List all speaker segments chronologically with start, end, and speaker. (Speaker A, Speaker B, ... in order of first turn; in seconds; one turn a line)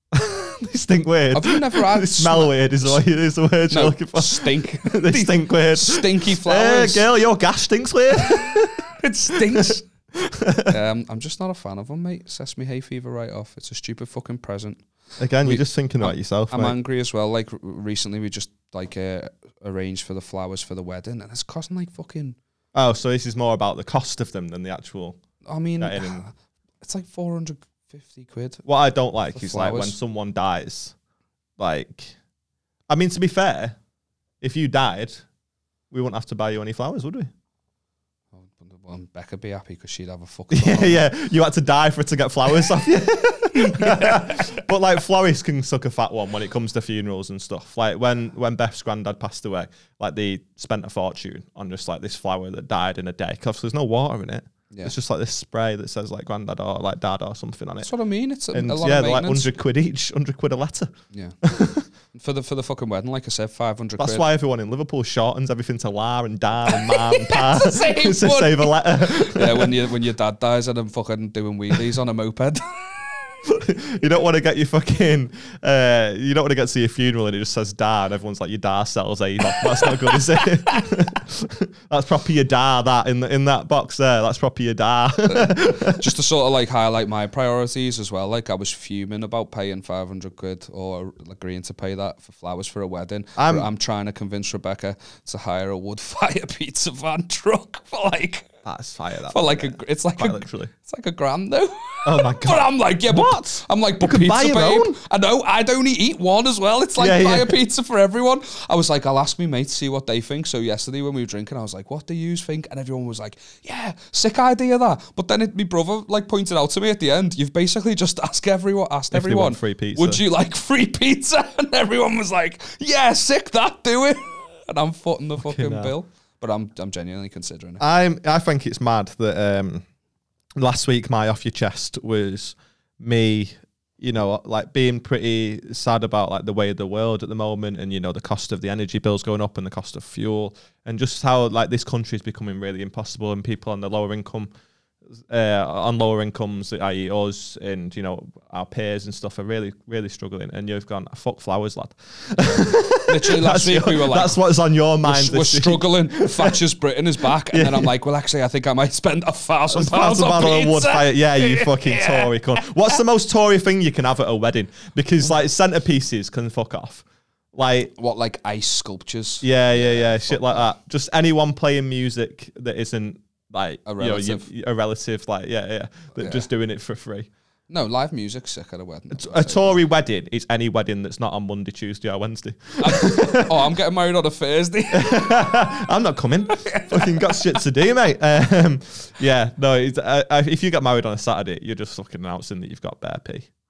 Speaker A: 0.1-10.8
Speaker B: 1.3-3.0
Speaker B: 3.7-7.0
Speaker B: 9.0-9.8
Speaker B: 10.6-14.8
Speaker A: 15.2-16.7
Speaker B: 15.4-22.4
Speaker A: 22.7-25.2
Speaker B: 25.4-28.6
Speaker A: 25.8-26.2
Speaker A: 28.6-30.9
Speaker B: 29.3-30.0
Speaker A: 31.6-32.1
Speaker A: 32.9-33.8
Speaker A: 34.4-35.2
Speaker A: 35.9-37.3
Speaker B: 38.3-41.1
Speaker A: 40.5-57.9
Speaker B: 43.5-44.6
Speaker B: 54.7-55.0
Speaker B: 57.8-59.5
Speaker A: 58.5-61.8
Speaker B: 61.1-61.4
Speaker B: 62.1-64.2
Speaker A: 64.0-69.8
Speaker B: 66.7-72.7
Speaker A: 73.5-86.1
Speaker B: 79.6-80.9
Speaker B: 85.2-98.5
Speaker A: 93.3-93.7
Speaker A: 98.6-100.7
Speaker B: 99.3-127.8
Speaker A: 102.0-105.0
Speaker A: 107.0-107.5
Speaker A: 119.1-120.2
Speaker A: 125.4-125.9
Speaker A: 127.8-129.8
Speaker A: 130.6-144.5
Speaker A: 145.3-156.6
Speaker B: 153.1-154.4
Speaker B: 155.0-163.0
Speaker A: 157.3-157.9
Speaker A: 159.7-167.0
Speaker A: 167.5-167.9
Speaker B: 167.9-170.7
Speaker A: 169.4-177.3
Speaker B: 173.8-174.5
Speaker B: 176.2-176.5
Speaker B: 177.7-179.8
Speaker A: 179.1-183.7
Speaker B: 182.8-185.5
Speaker A: 184.9-193.5
Speaker B: 186.5-187.6